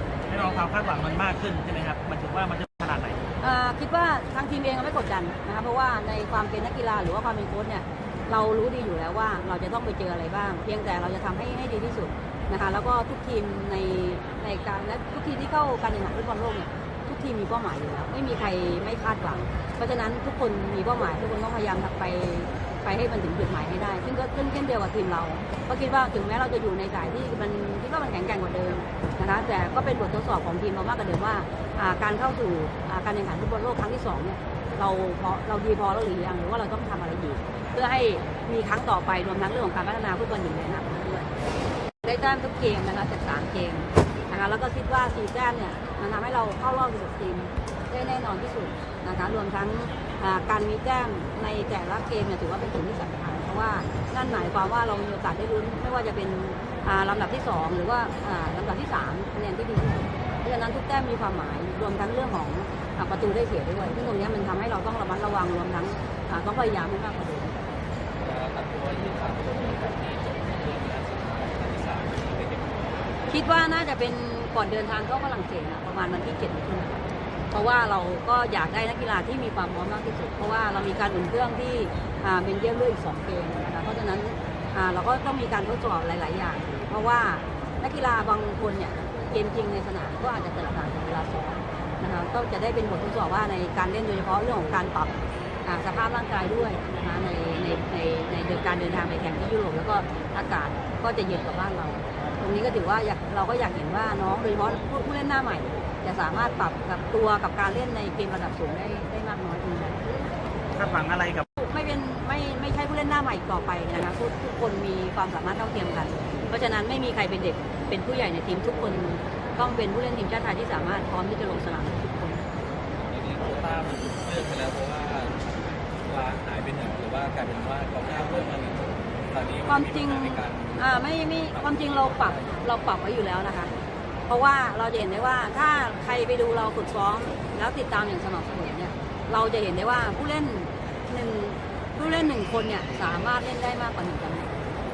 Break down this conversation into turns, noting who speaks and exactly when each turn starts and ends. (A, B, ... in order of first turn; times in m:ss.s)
0:00.3-0:03.2 A
0:03.4-0:41.3 B
0:37.5-0:37.8 C
0:42.0-1:07.6 B
1:08.2-1:13.3 C
1:13.3-1:35.1 B
1:35.6-1:50.0 B
1:50.7-1:51.4 A
1:51.6-2:02.5 B
2:02.9-2:12.6 C
2:09.7-2:13.7 B
2:14.3-2:24.6 B